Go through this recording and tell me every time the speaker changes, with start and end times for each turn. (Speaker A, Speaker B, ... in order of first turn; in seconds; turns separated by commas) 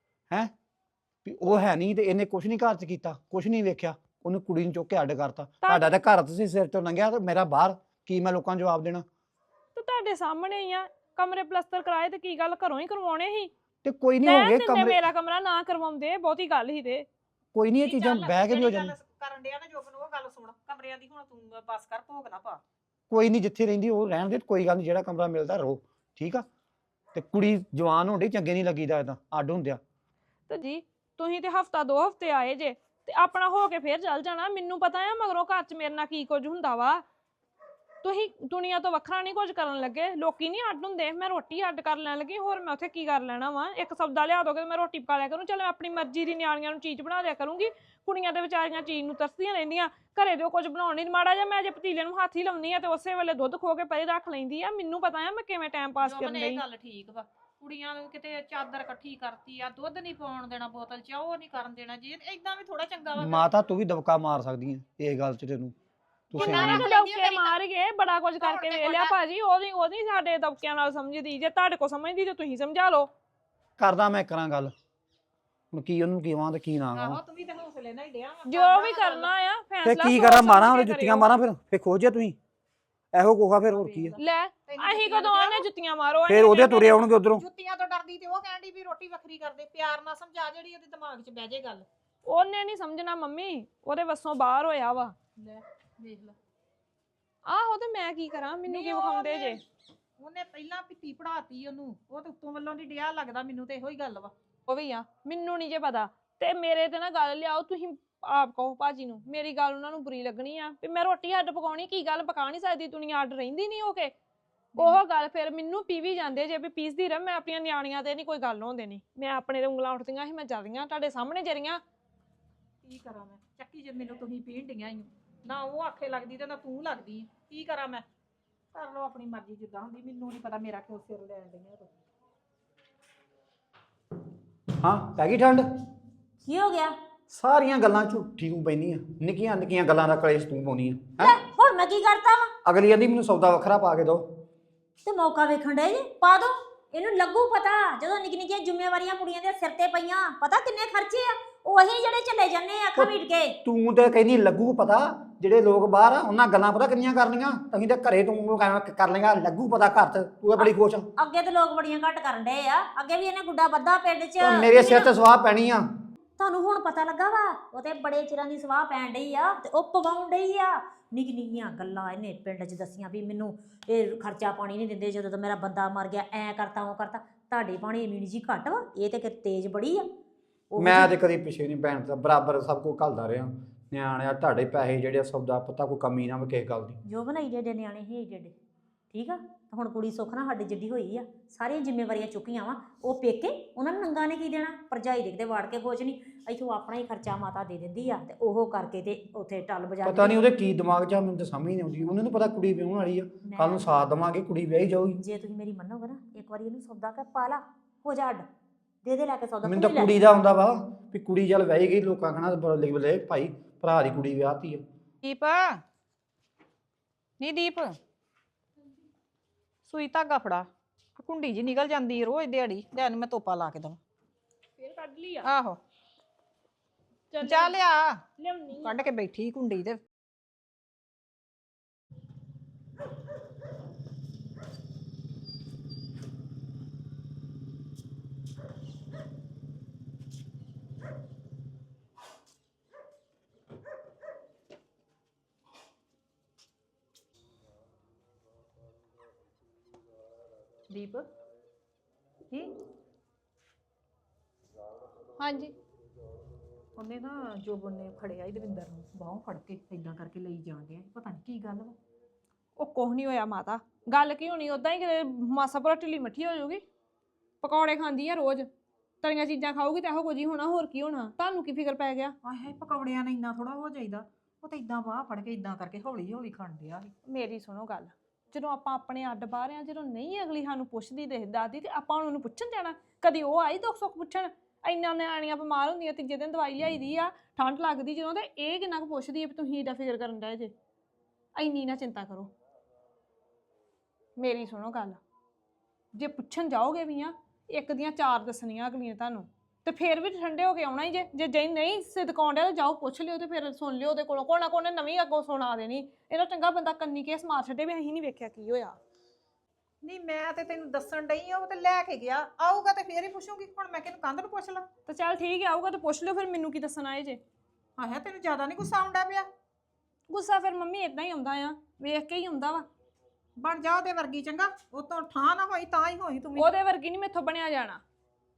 Speaker A: 1.2-9.0, Speaker B: 5.6-5.9, Speaker B: 9.7-13.5, Speaker A: 13.8-15.0, Speaker B: 14.2-17.1, Speaker A: 17.5-18.9, Speaker C: 17.8-22.6, Speaker A: 23.1-26.4, Speaker A: 27.1-29.8, Speaker B: 30.5-37.0, Speaker B: 38.0-56.6, Speaker C: 56.0-63.4, Speaker A: 63.2-65.7, Speaker A: 66.3-66.9, Speaker C: 66.3-67.5, Speaker B: 66.4-73.1, Speaker C: 68.4-69.1, Speaker A: 73.8-74.7, Speaker A: 75.7-77.2, Speaker C: 76.9-79.3, Speaker B: 78.5-81.3, Speaker A: 79.8-82.4, Speaker A: 83.1-84.2, Speaker C: 83.7-85.7, Speaker B: 84.2-87.0, Speaker A: 86.3-87.4, Speaker C: 87.3-91.9, Speaker B: 92.2-95.2, Speaker C: 95.4-96.3, Speaker B: 97.4-99.6, Speaker C: 98.7-99.6, Speaker C: 100.2-104.3, Speaker B: 104.7-114.1, Speaker C: 114.8-115.0, Speaker B: 114.8-121.8, Speaker C: 122.8-128.0, Speaker C: 128.7-131.9, Speaker A: 134.8-135.7, Speaker D: 136.4-136.9, Speaker A: 137.3-141.4, Speaker D: 141.2-142.5, Speaker A: 142.6-144.2, Speaker D: 145.0-153.6, Speaker A: 153.6-161.1, Speaker D: 160.6-165.1, Speaker A: 164.4-165.8, Speaker D: 166.4-180.1, Speaker D: 180.7-181.1, Speaker A: 180.8-187.0, Speaker D: 187.0-188.5, Speaker D: 189.1-200.4, Speaker A: 200.0-205.2, Speaker D: 203.5-204.0, Speaker D: 205.1-208.4, Speaker D: 209.0-210.1, Speaker A: 209.6-214.8, Speaker C: 215.2-215.8, Speaker C: 217.4-218.0, Speaker C: 219.9-224.0, Speaker B: 224.8-225.5, Speaker C: 225.4-225.8, Speaker B: 227.3-227.7, Speaker C: 227.4-228.2, Speaker B: 228.4-228.9, Speaker C: 228.8-230.0, Speaker C: 250.9-251.3, Speaker B: 255.4-255.7, Speaker C: 256.9-261.9, Speaker B: 262.8-266.8, Speaker B: 267.6-268.7, Speaker B: 269.2-272.3, Speaker C: 272.4-277.1, Speaker B: 277.3-290.7, Speaker B: 291.6-292.5, Speaker B: 294.4-295.2, Speaker B: 296.1-308.9, Speaker C: 310.0-314.9, Speaker B: 315.1-317.4, Speaker C: 318.0-319.5, Speaker B: 320.3-322.9, Speaker C: 323.6-326.7, Speaker B: 326.6-328.0